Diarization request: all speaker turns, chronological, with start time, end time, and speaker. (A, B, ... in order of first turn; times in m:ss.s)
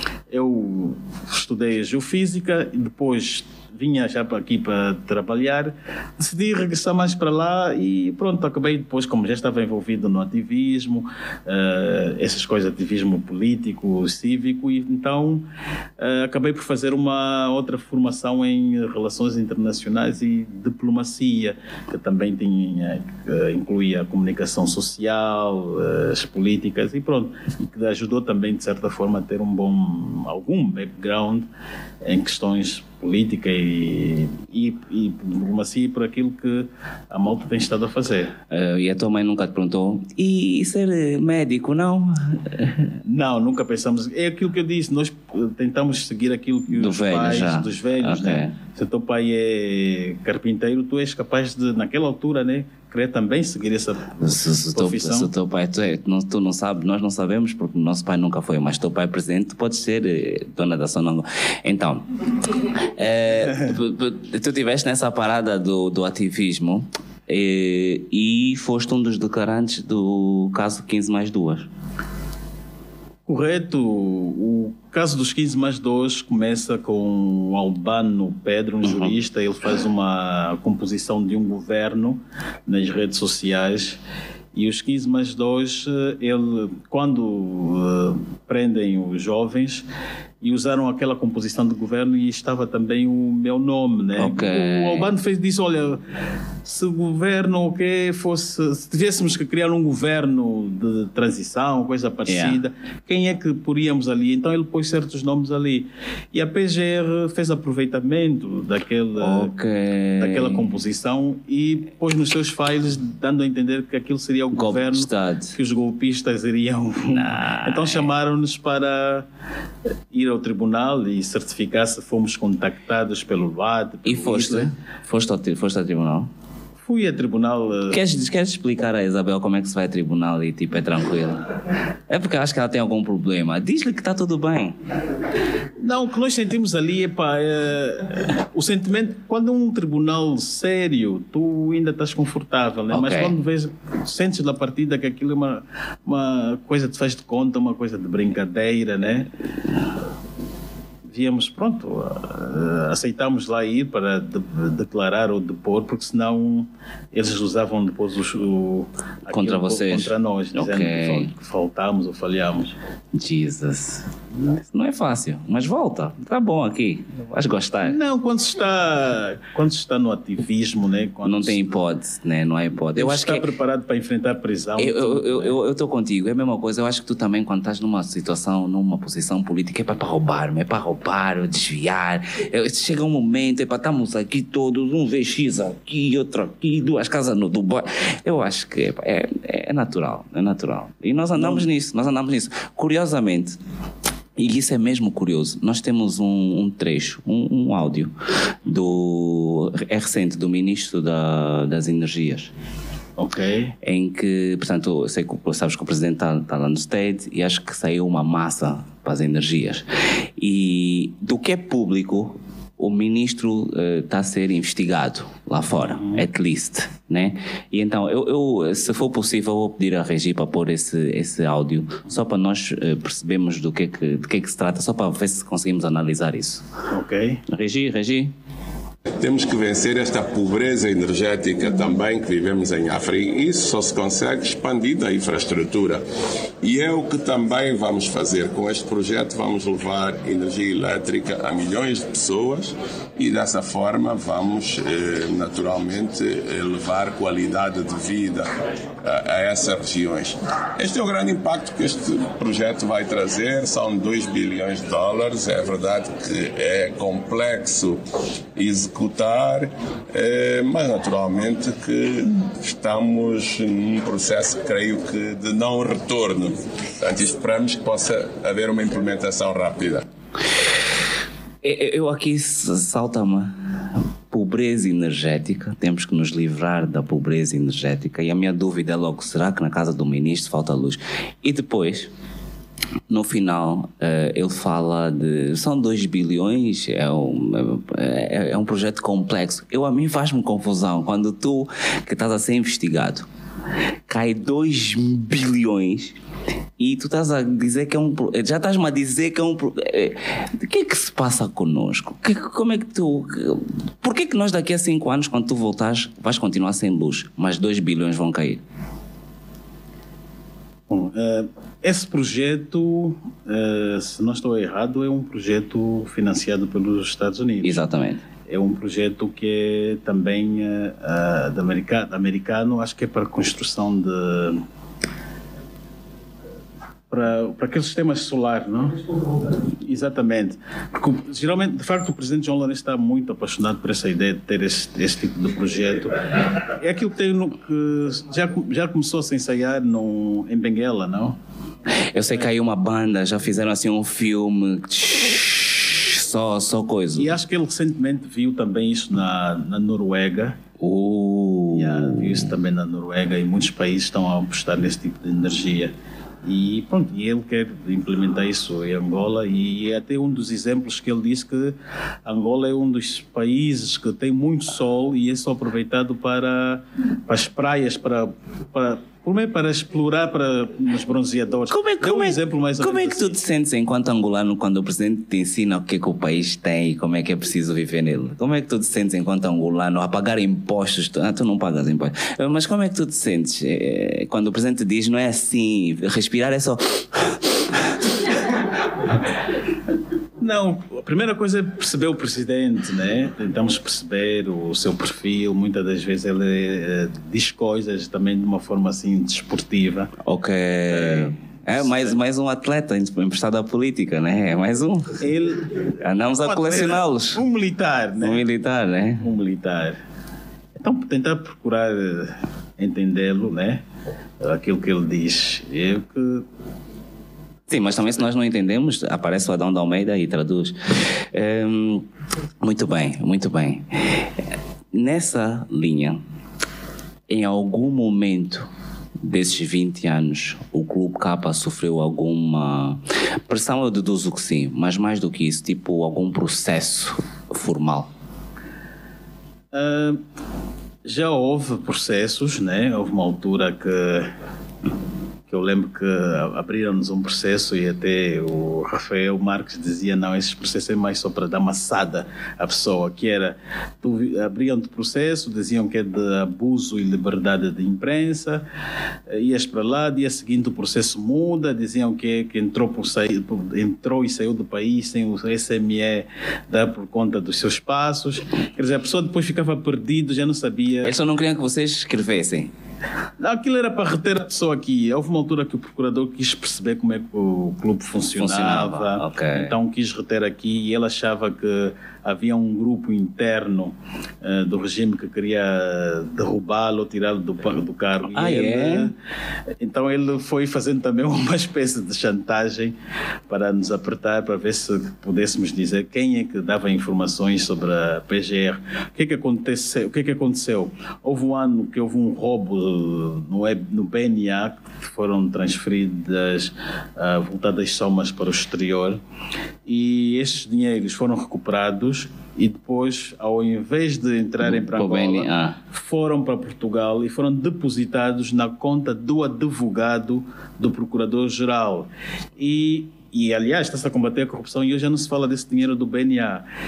0:00.3-0:15.4 A
0:16.0-0:31.5 A
0:32.0-0:38.3 A
0:38.5-0:42.9 B
0:43.0-0:55.3 A
0:46.7-0:48.5 B
0:54.2-1:02.0 B
1:03.0-1:11.7 B
1:13.3-1:24.0 A
1:18.8-1:19.1 B
1:24.5-1:29.8 A
1:30.4-1:36.0 A
1:34.2-1:35.1 B
1:36.6-1:49.5 A
1:42.3-1:42.6 B
1:49.2-1:50.7 B
1:50.2-1:59.2 A
1:54.5-1:55.6 B
1:57.0-1:58.1 B
2:00.1-2:04.7 A
2:04.0-2:06.3 B
2:06.8-2:08.0 A
2:07.9-2:11.6 B
2:12.1-2:14.8 B
2:15.8-2:29.3 A
2:22.9-2:23.3 B
2:31.1-2:42.8 A
2:39.3-2:41.3 B
2:43.1-2:48.0 B
2:47.8-2:51.7 A
2:51.2-2:53.5 B
2:53.0-2:55.5 A
2:54.8-3:13.6 B
3:11.4-3:11.6 A
3:14.4-3:18.1 B
3:18.6-3:22.5 B
3:23.2-3:23.7 A
3:23.8-3:29.8 B
3:30.4-3:46.6 B
3:35.9-3:36.2 A
3:46.9-3:47.4 A
3:47.5-3:48.3 B
3:49.2-3:56.0 C
3:56.6-4:08.5 C
4:09.0-4:18.0 C
4:18.6-4:30.0 C
4:31.6-4:33.5 B
4:34.3-4:42.1 B
4:43.1-4:53.3 B
4:54.1-4:56.2 B
4:56.8-5:08.6 B
5:10.9-5:17.8 A
5:17.6-5:18.2 B
5:18.5-5:24.6 A
5:27.1-5:41.4 A
5:42.1-5:47.3 B
5:47.1-5:50.6 A
5:50.8-5:52.4 B
5:51.7-5:55.9 A
5:56.4-6:13.3 A
6:11.7-6:27.6 B
6:30.4-6:40.1 A
6:40.2-6:45.2 B
6:40.9-6:42.1 A
6:45.2-6:45.7 A
6:46.0-6:47.4 B
6:46.4-6:48.4 A
6:48.2-6:49.3 B
6:49.2-6:50.0 A
6:50.8-6:53.8 A
6:54.4-6:56.4 A
6:57.7-7:02.0 B
7:02.6-7:04.3 B
7:04.9-7:06.2 B
7:07.3-7:08.7 B
7:09.2-7:18.1 B
7:19.7-7:20.2 A
7:21.0-7:24.3 A
7:25.5-7:38.6 A
7:39.3-7:51.1 A
7:51.0-7:52.7 B
7:53.4-8:09.1 A
7:58.4-7:59.7 B
8:08.3-8:09.1 B
8:09.8-8:12.9 A
8:13.5-8:29.2 A
8:29.8-8:46.6 A
8:34.6-8:35.8 B